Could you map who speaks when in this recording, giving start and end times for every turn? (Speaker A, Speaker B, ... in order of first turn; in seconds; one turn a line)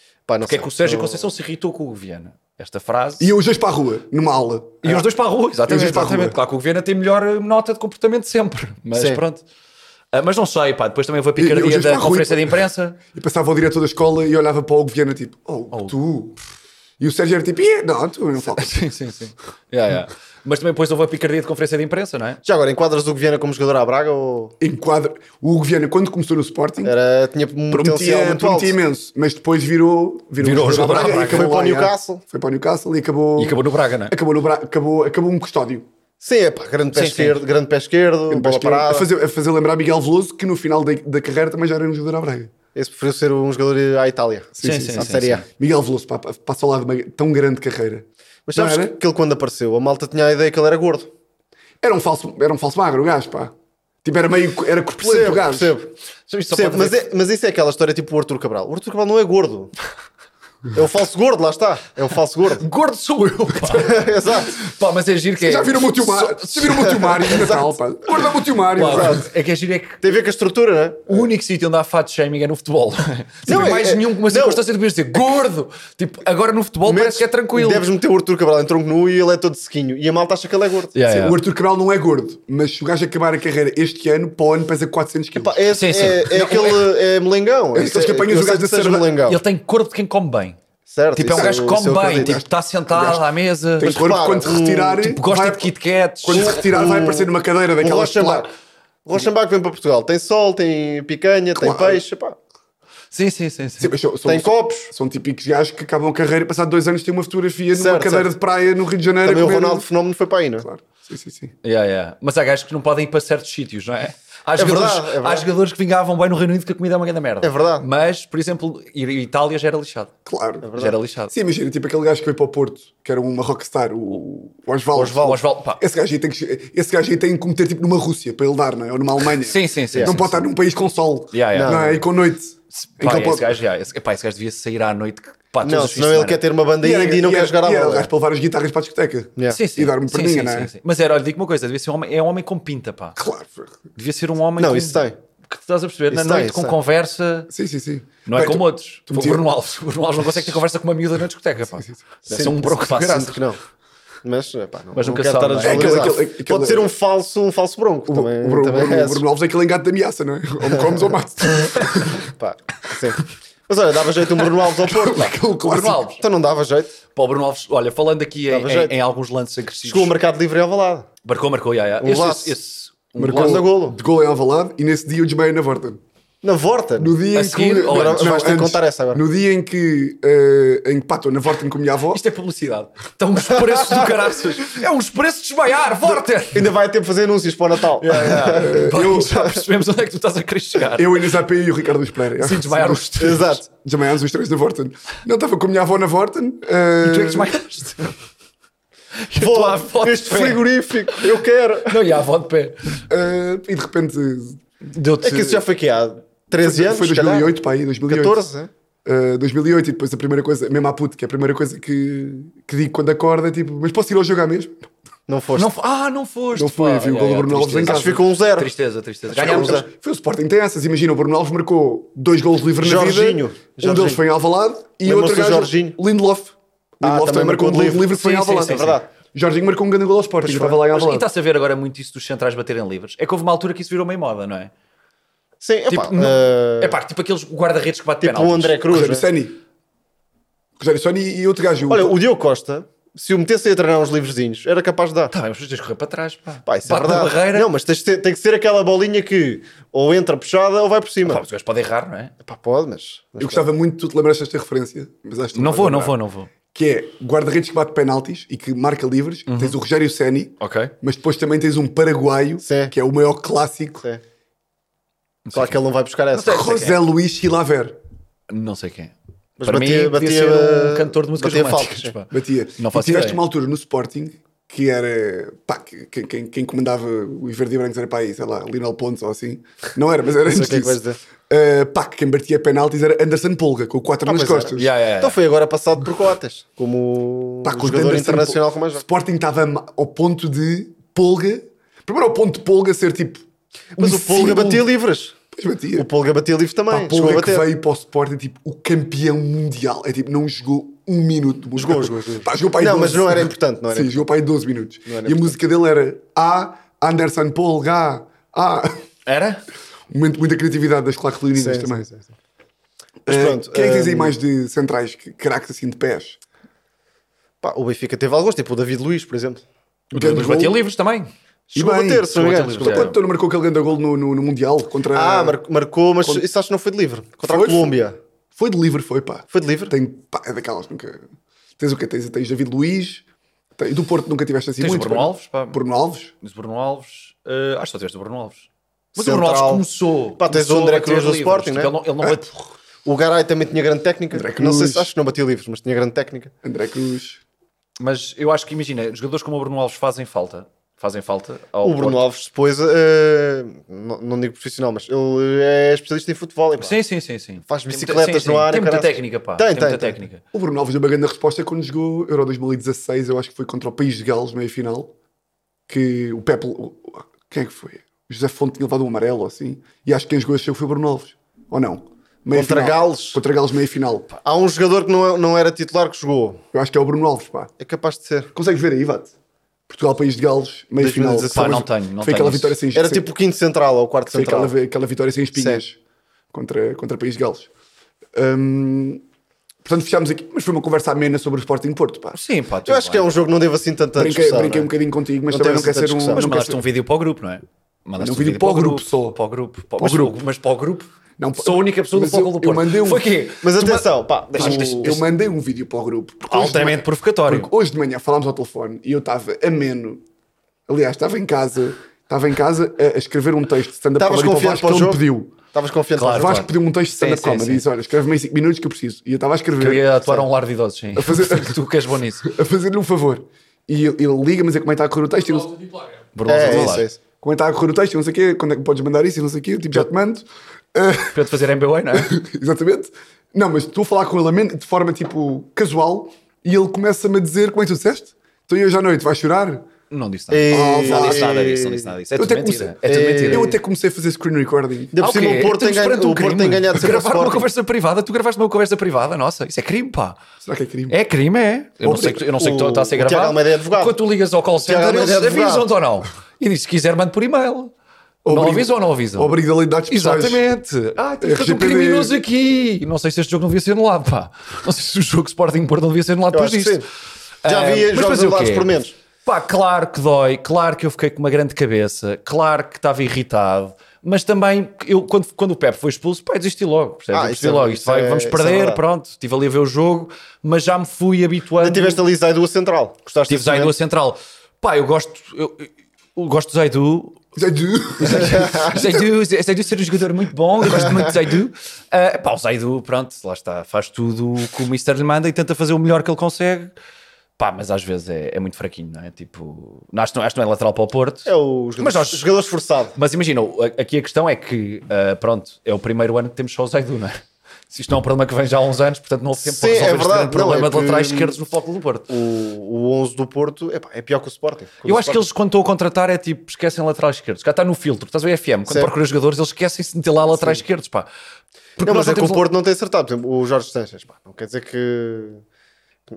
Speaker A: 0.3-1.3
Speaker B: 0.4-3.3
Speaker C: 3.2-5.1
Speaker B: 4.8-9.4
Speaker C: 5.7-6.4
Speaker A: 8.9-9.2
Speaker B: 10.1-13.0
Speaker C: 11.4-16.4
Speaker C: 17.0-18.8
Speaker B: 18.5-22.4
Speaker A: 22.4-24.6
Speaker C: 24.6-26.9
Speaker A: 26.8-28.8
Speaker C: 27.7-35.9
Speaker B: 30.4-31.6
Speaker A: 30.8-32.2
Speaker B: 33.4-34.1
Speaker A: 36.2-39.1
Speaker B: 37.0-37.4
Speaker C: 38.3-42.5
Speaker A: 42.8-45.5
Speaker C: 44.6-49.0
Speaker B: 44.6-45.4
Speaker A: 48.5-51.1
Speaker C: 51.8-53.5
Speaker C: 54.0-55.8
Speaker A: 55.0-59.7
Speaker B: 56.3-57.0
Speaker A: 60.7-62.7
Speaker B: 62.6-67.6
Speaker A: 63.6-64.6
Speaker C: 65.4-69.3
Speaker B: 68.2-70.0
Speaker A: 68.8-69.2
Speaker A: 70.0-71.3
Speaker B: 71.1-77.9
Speaker A: 73.5-74.6
Speaker C: 73.5-73.8
Speaker A: 76.9-81.0
Speaker B: 80.9-81.4
Speaker C: 81.1-85.7
Speaker A: 85.3-89.4
Speaker B: 85.7-86.9
Speaker C: 87.7-89.2
Speaker B: 89.3-90.6
Speaker A: 90.9-92.4
Speaker B: 91.2-94.0
Speaker C: 91.3-95.7
Speaker A: 93.8-95.1
Speaker B: 95.0-96.6
Speaker C: 96.2-98.5
Speaker A: 96.3-98.5
Speaker A: 99.1-102.4
Speaker C: 101.5-102.0
Speaker B: 103.1-103.9
Speaker C: 103.8-109.8
Speaker A: 104.2-104.9
Speaker A: 107.7-108.3
Speaker A: 109.2-110.7
Speaker C: 110.6-111.5
Speaker B: 111.6-120.1
Speaker A: 114.6-115.5
Speaker A: 117.4-117.8
Speaker C: 120.3-120.7
Speaker A: 120.6-121.0
Speaker B: 120.8-121.3
Speaker C: 121.3-133.6
Speaker A: 125.0-125.4
Speaker B: 125.2-125.8
Speaker B: 129.4-130.4
Speaker B: 131.3-131.9
Speaker A: 131.5-132.0
Speaker B: 132.7-136.4
Speaker A: 135.6-138.1
Speaker C: 136.8-140.7
Speaker B: 139.5-143.2
Speaker C: 143.2-143.8
Speaker B: 144.0-147.5
Speaker A: 144.6-145.2
Speaker A: 146.1-146.8
Speaker C: 147.5-149.4
Speaker B: 148.3-153.4
Speaker C: 150.2-150.6
Speaker A: 152.3-153.6
Speaker A: 154.2-159.3
Speaker B: 154.9-156.2
Speaker C: 155.6-156.9
Speaker C: 158.1-162.3
Speaker A: 162.2-165.4
Speaker C: 164.9-166.1
Speaker B: 165.6-166.2
Speaker A: 166.2-167.0
Speaker B: 167.2-170.2
Speaker A: 168.5-168.9
Speaker A: 169.8-171.1
Speaker B: 171.2-173.7
Speaker A: 172.0-172.6
Speaker C: 173.2-176.0
Speaker A: 173.3-174.0
Speaker A: 176.4-177.2
Speaker C: 177.0-182.2
Speaker B: 177.3-178.4
Speaker A: 177.9-179.2
Speaker B: 182.1-186.7
Speaker A: 186.5-189.6
Speaker B: 188.0-191.2
Speaker C: 188.5-189.4
Speaker C: 190.9-197.6
Speaker B: 192.4-193.6
Speaker A: 193.2-193.7
Speaker B: 197.0-198.1
Speaker B: 199.2-201.3
Speaker A: 199.3-202.0
Speaker B: 201.9-203.0
Speaker C: 203.1-204.6
Speaker B: 204.9-205.6
Speaker A: 205.2-208.7
Speaker C: 206.6-208.4
Speaker C: 209.1-214.8
Speaker A: 215.3-215.7
Speaker B: 215.6-219.8
Speaker C: 216.6-218.2
Speaker A: 217.8-218.7
Speaker C: 219.3-231.3
Speaker A: 219.3-219.9
Speaker A: 222.8-224.2
Speaker A: 225.0-226.0
Speaker A: 227.0-229.1
Speaker B: 228.1-229.0
Speaker A: 230.4-230.8
Speaker B: 230.9-234.7
Speaker A: 235.6-237.0
Speaker B: 235.9-238.8
Speaker A: 238.2-239.3
Speaker C: 238.9-239.6
Speaker C: 240.8-242.2
Speaker A: 241.9-245.3
Speaker B: 245.3-247.7
Speaker A: 246.7-251.4
Speaker B: 251.3-252.3
Speaker A: 252.4-253.7
Speaker C: 253.4-256.2
Speaker B: 255.6-256.5
Speaker C: 256.7-264.1
Speaker B: 259.5-259.8
Speaker B: 260.6-260.9
Speaker A: 262.6-262.9
Speaker B: 265.5-265.8
Speaker A: 265.5-266.8
Speaker B: 266.3-267.0
Speaker C: 266.5-268.0
Speaker B: 268.5-273.4
Speaker A: 269.6-272.1
Speaker C: 272.3-284.9
Speaker A: 280.4-281.2
Speaker A: 284.2-289.0
Speaker B: 284.8-285.4
Speaker C: 287.6-293.4
Speaker C: 294.0-294.9
Speaker A: 294.0-295.4
Speaker C: 295.5-296.1
Speaker A: 295.9-297.7
Speaker C: 296.9-309.0
Speaker A: 301.8-304.2
Speaker A: 305.1-305.6
Speaker B: 309.3-309.6
Speaker C: 310.1-312.1
Speaker A: 311.6-312.3
Speaker C: 313.3-316.4
Speaker A: 313.3-314.4
Speaker A: 317.6-319.6
Speaker B: 320.1-321.3
Speaker C: 320.1-320.8
Speaker A: 321.7-323.1
Speaker C: 321.7-325.6
Speaker B: 322.3-323.2
Speaker A: 325.1-328.2
Speaker C: 327.4-327.9
Speaker C: 328.6-331.2
Speaker A: 329.5-329.9
Speaker C: 331.8-333.2
Speaker C: 333.8-336.3
Speaker B: 334.8-335.8
Speaker B: 336.4-342.5
Speaker A: 339.2-339.9
Speaker A: 340.4-341.9
Speaker C: 342.2-342.6
Speaker A: 343.1-346.5
Speaker C: 344.3-345.1
Speaker C: 346.6-347.4
Speaker B: 348.0-352.2
Speaker A: 351.8-357.0
Speaker B: 356.8-360.4
Speaker A: 357.7-360.2
Speaker C: 360.5-365.1
Speaker C: 365.9-374.3
Speaker A: 372.5-373.4
Speaker A: 374.4-376.6
Speaker C: 376.7-377.7
Speaker A: 377.8-378.5
Speaker C: 378.5-379.3
Speaker C: 379.9-383.3
Speaker A: 381.0-381.9
Speaker B: 381.5-382.8
Speaker A: 382.9-384.8
Speaker C: 384.3-386.0
Speaker A: 385.6-385.8
Speaker C: 386.5-387.7
Speaker C: 388.3-389.2
Speaker C: 389.9-392.4
Speaker B: 392.3-393.3
Speaker A: 392.9-394.9
Speaker C: 394.2-396.8
Speaker A: 395.5-396.4
Speaker B: 396.3-405.2
Speaker C: 398.2-399.4
Speaker C: 400.0-400.4
Speaker C: 401.4-403.3
Speaker A: 403.6-405.1
Speaker C: 404.5-410.2
Speaker B: 406.5-407.7
Speaker C: 410.9-415.6
Speaker A: 414.2-416.7
Speaker B: 416.2-417.9
Speaker C: 416.4-420.4
Speaker B: 419.8-422.5
Speaker C: 421.2-421.8
Speaker C: 422.4-426.0
Speaker B: 426.4-427.1
Speaker A: 426.5-427.2
Speaker C: 426.6-431.5
Speaker B: 431.3-432.4
Speaker C: 432.1-439.9
Speaker B: 440.1-443.7
Speaker A: 440.5-442.1
Speaker C: 440.7-441.6
Speaker C: 442.4-443.0
Speaker A: 443.1-443.8
Speaker C: 443.5-445.2
Speaker A: 445.1-447.7
Speaker B: 445.2-450.4
Speaker C: 450.6-451.2
Speaker B: 451.1-457.9
Speaker C: 452.0-452.4
Speaker A: 452.6-454.2
Speaker A: 454.8-455.9
Speaker C: 458.4-460.6
Speaker B: 458.5-459.6
Speaker B: 460.1-467.0
Speaker C: 461.4-462.4
Speaker A: 466.5-467.1
Speaker A: 467.6-469.1
Speaker B: 467.6-482.2
Speaker A: 477.3-479.0
Speaker A: 481.8-483.9
Speaker B: 483.5-487.4
Speaker C: 487.6-489.3
Speaker B: 488.2-496.9
Speaker A: 488.6-488.9
Speaker B: 497.6-502.5
Speaker A: 501.5-503.2
Speaker B: 503.2-507.4
Speaker B: 507.9-512.3
Speaker A: 509.6-511.6
Speaker A: 512.3-515.5
Speaker B: 515.0-521.3
Speaker A: 518.9-519.1
Speaker A: 520.5-520.8
Speaker B: 522.0-522.6
Speaker A: 522.0-525.6